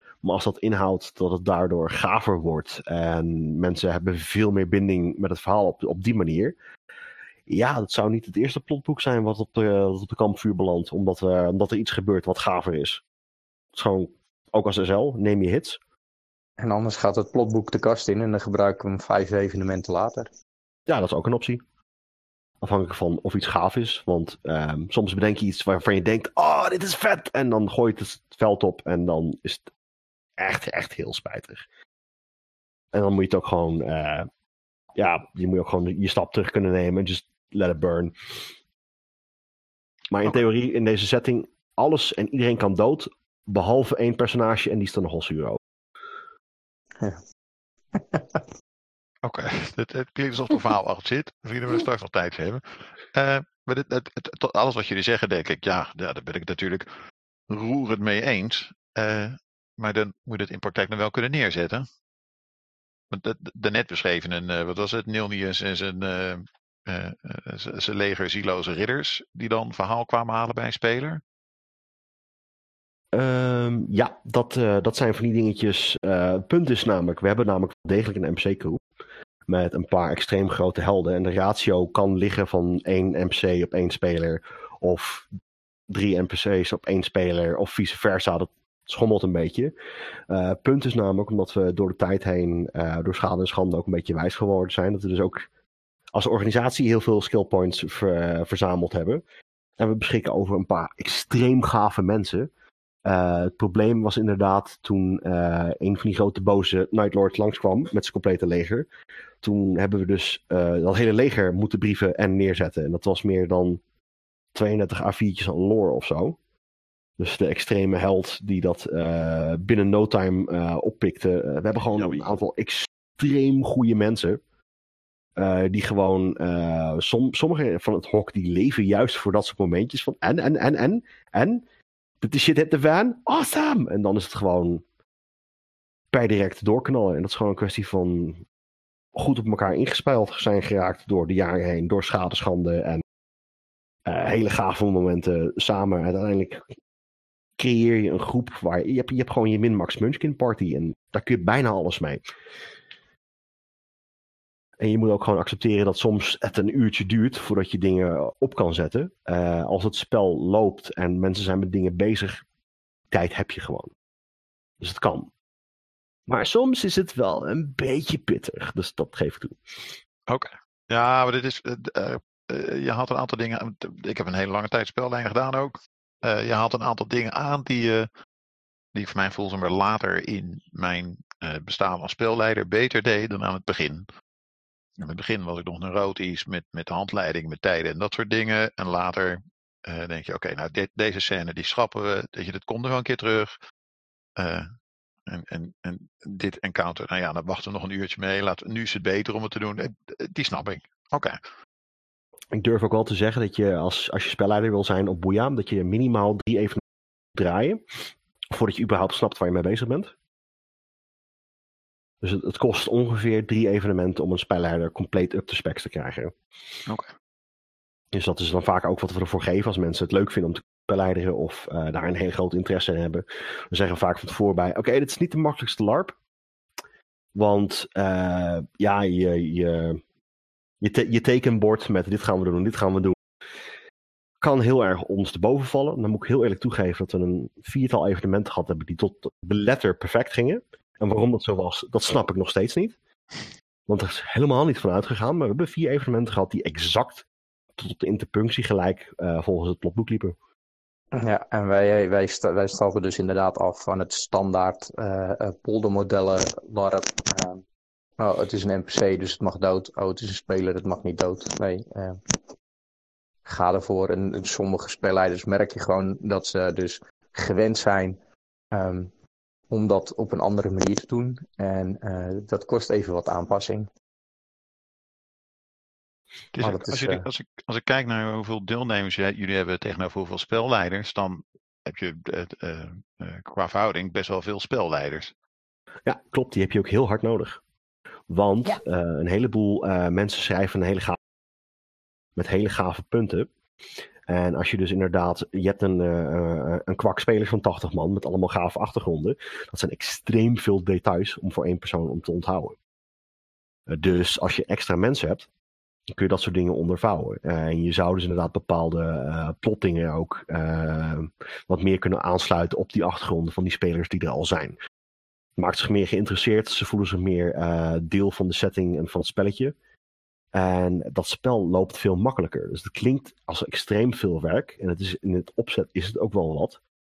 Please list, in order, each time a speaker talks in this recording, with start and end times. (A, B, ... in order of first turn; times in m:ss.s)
0:00.2-0:06.6 A
0:07.5-0:13.0 A
0:13.7-0:15.8 A
0:16.6-0:20.3 B
0:20.9-0:21.6 A
0:22.6-0:29.7 A
0:30.4-0:31.6 A
0:32.9-0:34.3 A
0:34.9-0:38.1 A
0:40.1-0:45.6 A
0:47.9-0:48.4 B
0:49.2-0:56.9 C
0:57.5-1:01.9 C
1:03.1-1:11.2 C
1:13.1-1:18.8 A
1:19.5-1:25.3 A
1:25.9-1:29.7 A
1:30.3-1:35.5 A
1:36.1-1:39.2 A
1:39.8-1:42.5 A
1:43.0-1:48.9 A
1:49.4-1:53.8 A
1:54.5-1:56.4 A
1:57.2-2:04.4 A
2:01.9-2:02.2 C
2:05.4-2:11.6 A
2:12.2-2:14.8 A
2:16.1-2:18.4 A
2:19.2-2:23.0 A
2:24.0-2:26.6 A
2:27.6-2:32.2 A
2:34.8-2:42.4 A
2:43.1-2:43.9 A
2:44.8-2:45.3 A
2:46.3-2:49.6 A
2:50.3-2:58.1 C
2:58.9-3:04.0 C
3:05.0-3:13.5 C
3:14.4-3:14.7 C
3:15.3-3:21.3 C
3:22.5-3:26.8 A
3:27.3-3:27.8 A
3:28.5-3:30.1 A
3:32.2-3:36.3 A
3:38.1-3:46.1 A
3:47.3-3:50.0 A
3:50.8-3:53.2 A
3:54.4-4:03.0 A
4:03.9-4:07.2 A
4:07.8-4:10.4 A
4:11.1-4:17.6 B
4:18.2-4:22.2 B
4:23.4-4:28.2 B
4:28.7-4:29.1 B
4:29.7-4:33.9 B
4:36.5-4:45.3 C
4:36.6-4:37.2 B
4:46.0-4:47.6 A
4:48.3-4:51.2 A
4:52.4-4:53.5 A
4:54.3-5:02.8 A
5:03.9-5:05.5 A
5:06.1-5:14.8 A
5:15.6-5:19.7 A
5:20.5-5:26.8 A